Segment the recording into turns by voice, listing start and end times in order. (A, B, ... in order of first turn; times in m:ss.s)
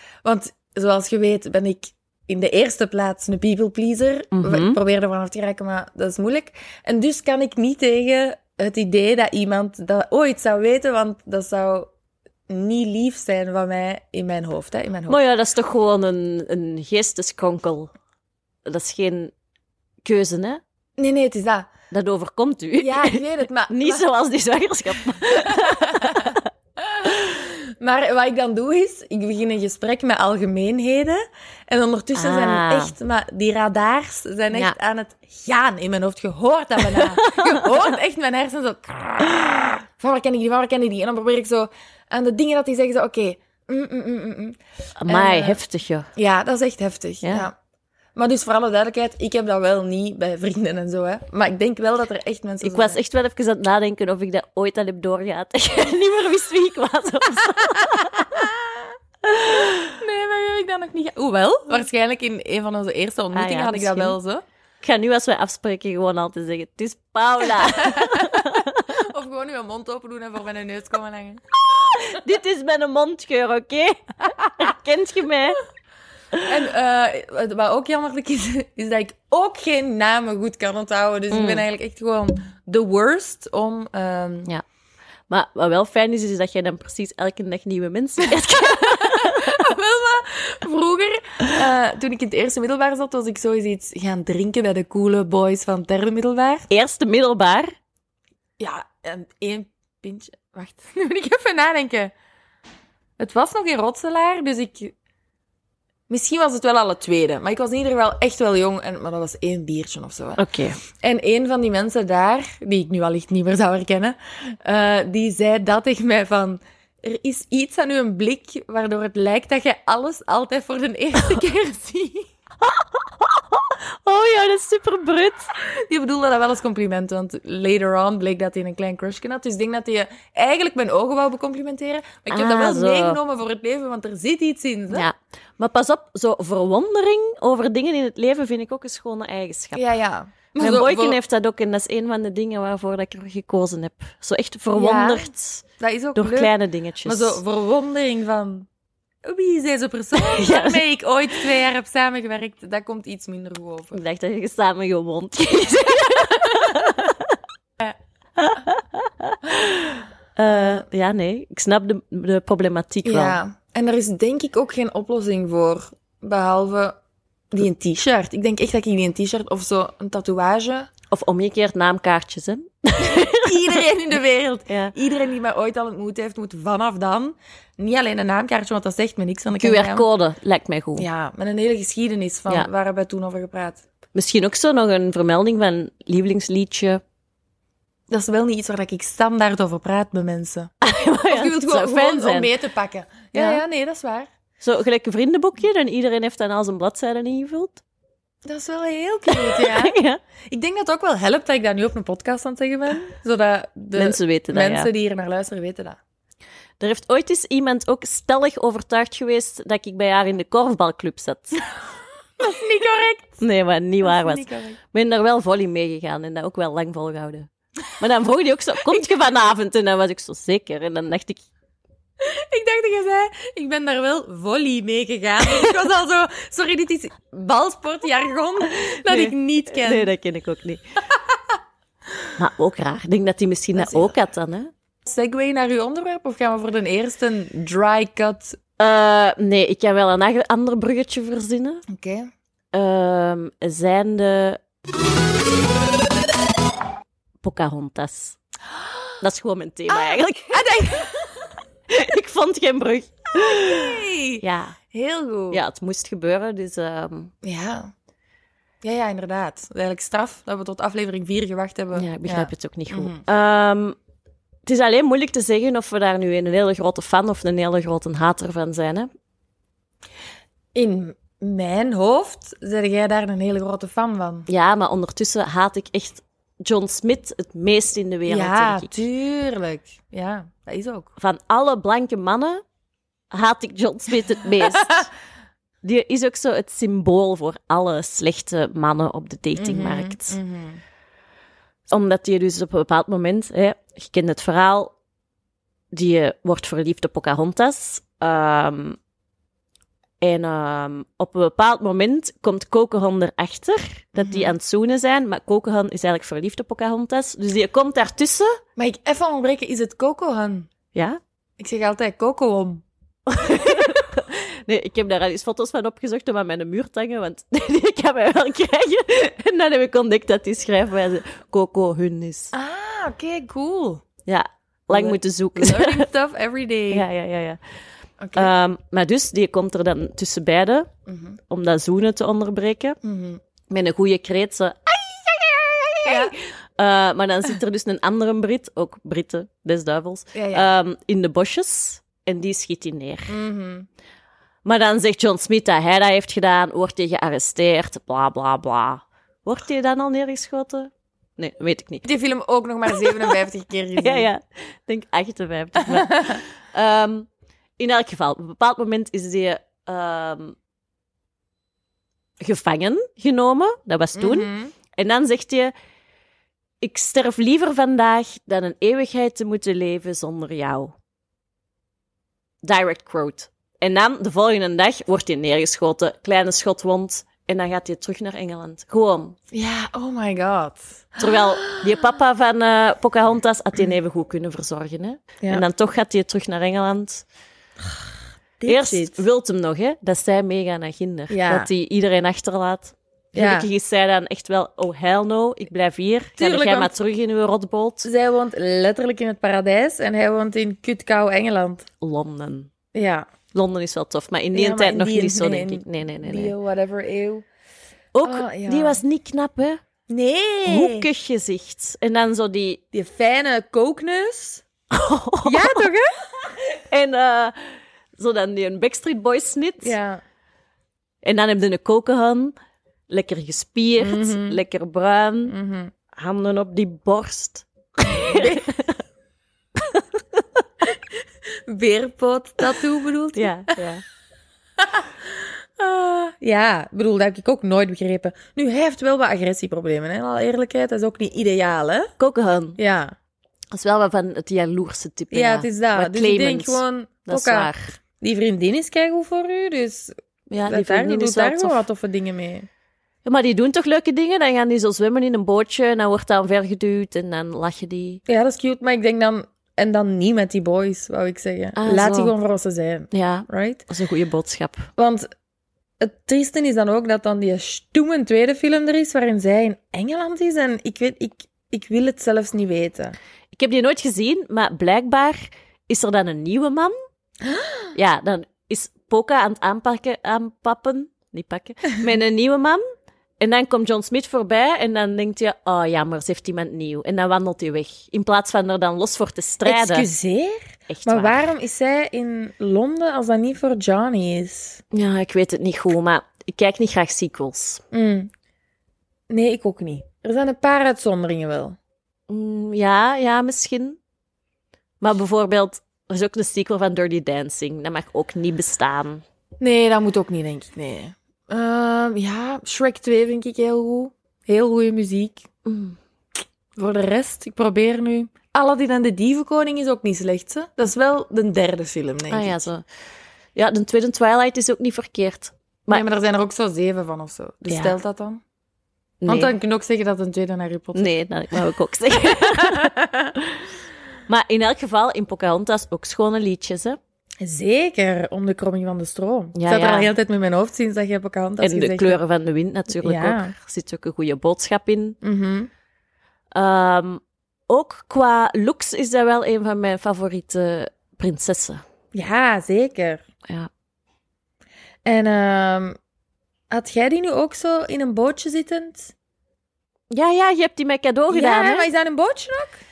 0:00.2-0:11.9 A
0:04.3-0:04.8 B
0:12.5-0:15.2 A
0:15.1-0:17.9 B
0:18.6-0:19.3 B
0:20.0-0:20.6 B
0:21.0-0:21.7 A
0:21.9-0:26.5 B
0:22.8-0:24.1 A
0:25.4-0:45.6 A
0:32.2-0:32.9 B
0:34.5-0:34.8 B
0:36.8-0:37.9 B
0:45.0-0:46.1 B
0:46.2-0:47.6 A
0:47.2-0:47.5 B
0:48.2-0:53.0 A
0:52.6-0:58.4 B
0:59.3-0:59.8 B
0:59.8-1:04.4 A
1:03.3-1:04.2 B
1:04.8-1:08.8 B
1:07.6-1:11.4 A
1:11.7-1:15.6 B
1:16.4-1:24.5 A
1:21.3-1:21.7 B
1:25.3-1:29.7 B
1:29.1-1:36.7 A
1:36.7-1:37.7 B
1:38.6-1:42.1 A
1:43.2-1:44.9 A
1:46.1-1:50.4 A
1:50.4-1:50.8 B
1:51.0-2:02.3 A
2:02.7-2:05.5 B
2:05.9-2:15.1 A
2:12.3-2:13.2 B
2:14.9-2:19.8 B
2:19.8-2:21.2 A
2:20.6-2:25.6 B
2:24.8-2:26.5 A
2:26.2-2:27.4 B
2:27.0-2:28.7 A
2:29.2-2:34.0 A
2:30.2-2:30.8 B
2:33.9-2:37.4 B
2:38.4-2:43.4 B
2:40.5-2:40.8 A
2:43.0-2:47.0 A
2:47.5-2:50.9 A
2:51.1-2:53.8 B
2:53.4-3:00.1 A
2:54.7-2:54.9 B
2:59.6-3:01.1 B
3:01.0-3:03.8 A
3:04.1-3:07.0 B
3:08.1-3:10.7 A
3:10.8-3:12.5 B
3:11.3-3:14.3 A
3:13.3-3:13.6 B
3:14.6-3:17.8 B
3:18.4-3:20.0 A
3:19.3-3:20.2 B
3:20.5-3:26.0 A
3:24.0-3:24.9 B
3:26.8-3:31.6 B
3:32.4-3:33.4 A
3:33.4-3:37.5 B
3:34.0-3:34.8 A
3:38.0-3:41.4 B
3:38.9-3:39.2 A
3:42.2-3:50.1 A
3:45.5-3:45.8 B
3:49.1-3:50.8 B
3:52.4-3:54.7 B
3:53.8-3:54.2 A
3:55.1-3:58.6 A
3:58.8-4:01.8 B
4:01.9-4:02.3 A
4:02.7-4:04.6 B
4:07.4-4:08.4 B
4:09.2-4:11.1 B
4:10.5-4:11.3 A
4:11.9-4:14.8 B
4:13.4-4:15.6 A
4:15.5-4:17.3 B
4:17.4-4:17.9 A
4:18.8-4:23.2 A
4:21.9-4:24.0 B
4:24.7-4:29.1 B
4:30.8-4:34.5 A
4:34.5-4:39.0 B
4:38.3-4:41.1 A
4:41.2-4:42.6 B
4:43.3-4:45.1 B
4:44.8-4:45.1 A
4:45.8-4:50.4 B
4:49.6-4:50.8 A
4:51.9-4:54.9 B
4:55.9-4:59.0 B
5:00.2-5:08.5 B
5:04.2-5:04.5 A
5:08.8-5:10.7 A
5:10.9-5:11.2 B
5:11.6-5:12.8 A
5:13.3-5:22.5 B
5:22.5-5:24.0 A
5:24.3-5:26.1 B
5:24.9-5:27.1 A
5:26.9-5:27.6 B
5:28.2-5:28.5 A
5:28.4-5:30.9 B
5:31.1-5:31.4 A
5:31.5-5:33.0 B
5:33.0-5:33.4 A
5:33.7-5:43.4 B
5:36.1-5:36.3 A
5:40.3-5:40.7 A
5:43.3-5:43.9 A
5:44.6-5:52.1 B
5:52.0-5:54.3 A
5:52.9-5:53.3 B
5:54.0-5:57.3 B
5:55.9-5:56.4 A
5:57.8-6:00.6 B
6:02.4-6:05.7 B
6:04.2-6:04.7 A
6:06.8-6:10.9 B
6:12.6-6:19.4 B
6:19.5-6:22.0 A
6:21.2-6:27.2 B
6:28.6-6:29.2 A
6:28.7-6:38.1 B
6:31.3-6:31.7 A
6:33.3-6:33.7 A
6:36.4-6:37.0 A
6:38.0-6:41.9 A
6:42.0-6:42.7 B
6:42.9-6:43.3 A
6:43.5-6:46.6 B
6:44.5-6:47.5 A
6:48.2-6:49.8 B
6:48.2-6:49.0 A
6:50.1-6:51.1 A
6:50.7-6:52.8 B
6:52.9-6:54.6 A
6:54.9-6:55.8 B
6:55.4-6:56.5 A
6:56.7-7:00.0 B
6:59.8-7:00.2 A
7:01.2-7:02.5 B
7:03.1-7:05.6 B
7:04.0-7:04.6 A
7:05.5-7:05.9 A
7:06.2-7:08.8 B
7:08.3-7:08.8 A
7:09.9-7:10.4 B
7:11.7-7:13.6 A
7:13.4-7:14.0 B
7:14.8-7:15.1 A
7:15.8-7:22.1 A
7:22.2-7:22.8 B
7:22.8-7:23.1 A
7:23.7-7:27.9 B
7:25.3-7:30.1 A
7:30.5-7:31.8 B
7:30.6-7:32.7 A
7:33.2-7:38.2 B
7:38.3-7:43.8 A
7:41.8-7:42.4 B
7:43.1-7:44.9 B
7:45.0-7:45.3 A
7:46.0-7:53.2 A
7:53.5-7:56.9 B
7:58.0-8:02.8 B
8:03.4-8:10.1 B
8:09.6-8:14.8 A
8:10.9-8:11.4 B
8:14.9-8:17.8 B
8:17.9-8:18.3 A
8:19.3-8:21.8 A
8:22.3-8:24.0 B
8:25.0-8:29.2 B
8:29.6-8:35.5 A
8:35.7-8:36.0 B
8:36.8-8:42.6 A
8:42.3-8:42.8 B
8:43.6-8:46.0 B
8:45.9-8:48.4 A
8:47.7-8:47.9 B
8:49.2-8:49.5 B
8:49.3-8:51.6 A
8:50.9-8:52.9 B
8:52.3-8:53.3 A
8:54.3-8:57.0 B
8:57.4-9:02.2 A
8:59.6-9:00.1 B
9:01.6-9:05.2 B
9:03.0-9:03.5 A
9:05.2-9:05.7 A
9:06.6-9:11.8 B
9:12.1-9:13.2 A
9:15.1-9:16.0 A
9:16.7-9:19.1 A
9:20.1-9:21.9 B
9:21.3-9:22.8 A